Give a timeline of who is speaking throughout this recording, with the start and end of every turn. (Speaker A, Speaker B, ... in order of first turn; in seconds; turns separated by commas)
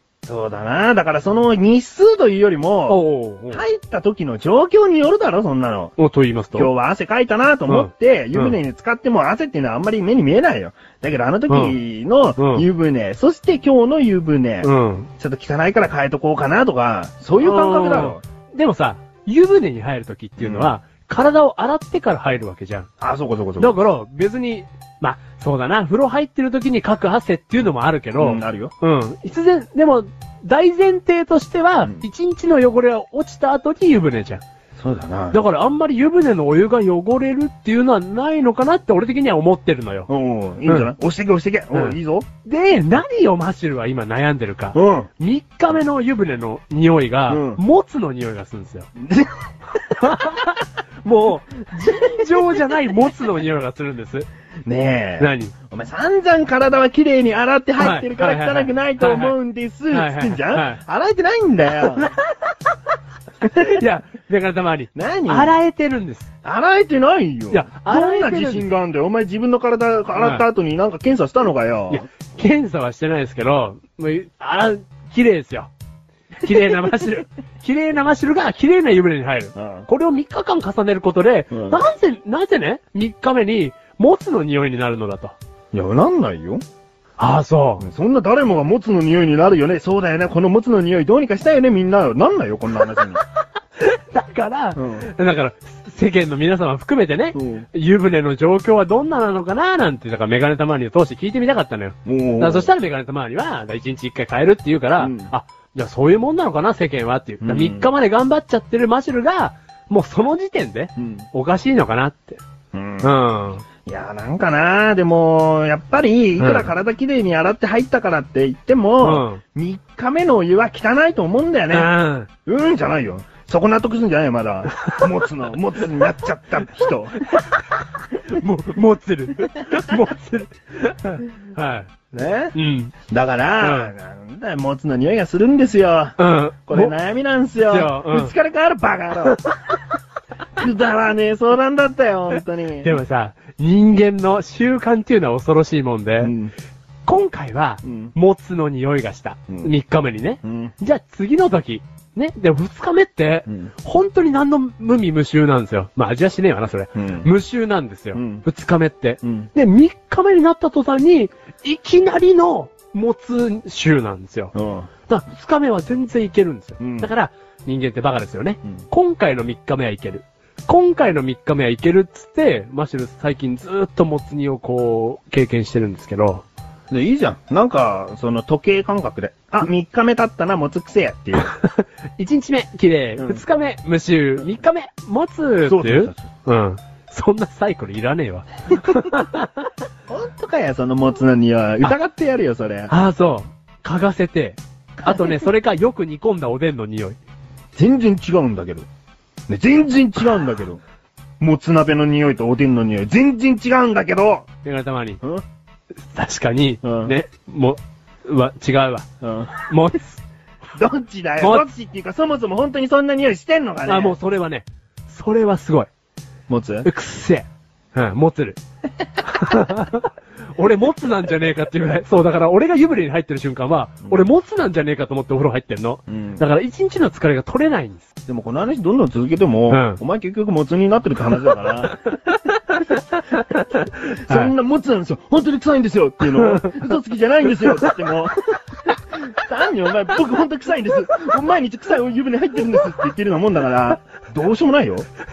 Speaker A: 0.2-3.0, Speaker B: 2.9-3.6, Speaker A: 3.5-5.9, Speaker B: 6.0-6.7, Speaker A: 6.5-18.2, Speaker B: 7.7-8.6, Speaker B: 11.5-11.7, Speaker B: 12.4-12.6, Speaker B: 14.6-15.1, Speaker B: 17.4-22.9, Speaker A: 20.4-20.7, Speaker A: 23.0-23.8, Speaker B: 23.6-34.4, Speaker A: 28.2-28.7, Speaker A: 34.8-35.4, Speaker B: 35.3-40.1, Speaker A: 40.1-42.3, Speaker B: 41.7-48.9, Speaker A: 44.7-45.1, Speaker A: 47.3-47.6, Speaker A: 49.0-49.3, Speaker B: 49.8-54.2, Speaker A: 54.6-62.1, Speaker B: 55.2-55.5, Speaker B: 57.8-59.3, Speaker B: 59.9-60.8, Speaker B: 62.0-62.5, Speaker A: 63.4-63.8, Speaker B: 63.5-66.3, Speaker A: 64.9-65.5, Speaker A: 66.4-72.0, Speaker B: 67.5-68.7, Speaker B: 70.1-70.4, Speaker B: 71.9-75.7, Speaker B: 76.4-85.3, Speaker A: 79.5-79.9, Speaker A: 81.5-81.8, Speaker A: 85.7-86.6, Speaker B: 87.2-87.8, Speaker A: 87.8-93.2, Speaker B: 93.8-112.4, Speaker A: 94.8-95.1, Speaker A: 97.3-97.7, Speaker A: 102.0-102.7, Speaker A: 105.0-105.3, Speaker A: 107.4-107.9, Speaker A: 111.0-111.3, Speaker A: 112.7-113.1, Speaker B: 113.0-113.6, Speaker A: 113.8-121.9, Speaker B: 116.4-116.7, Speaker B: 119.0-119.4, Speaker B: 121.7-122.3, Speaker A: 122.5-127.2, Speaker B: 127.2-131.9, Speaker A: 132.1-132.5, Speaker B: 132.5-132.9, Speaker A: 133.1-139.4, Speaker B: 133.6-133.9, Speaker B: 136.2-136.9, Speaker B: 137.6-138.3, Speaker B: 139.2-139.5, Speaker A: 140.6-143.0, Speaker B: 142.8-146.3, Speaker A: 146.2-146.5, Speaker B: 147.1-164.5, Speaker A: 147.8-148.1, Speaker A: 150.4-150.7, Speaker A: 156.9-157.3, Speaker A: 158.1-158.4, Speaker A: 159.2-159.5, Speaker A: 164.5-164.9, Speaker B: 165.1-176.4, Speaker A: 166.8-167.1, Speaker A: 176.9-181.5, Speaker B: 181.4-189.7, Speaker A: 185.6-186.2, Speaker A: 190.1-192.9, Speaker B: 192.9-197.2, Speaker A: 195.0-195.4, Speaker A: 197.8-198.9, Speaker A: 199.5-200.8, Speaker A: 201.4-204.4, Speaker B: 204.6-205.2, Speaker B: 206.0-209.1, Speaker A: 206.8-207.1, Speaker A: 209.2-209.6, Speaker B: 209.6-210.2, Speaker A: 210.7-214.2, Speaker B: 211.4-211.7, Speaker B: 213.8-215.9, Speaker A: 216.5-216.9, Speaker B: 216.8-218.6, Speaker B: 219.2-228.1, Speaker A: 226.1-226.4, Speaker A: 228.3-232.0, Speaker B: 229.7-230.0, Speaker B: 232.9-234.5, Speaker A: 234.2-245.1, Speaker B: 236.2-236.9, Speaker B: 237.5-238.0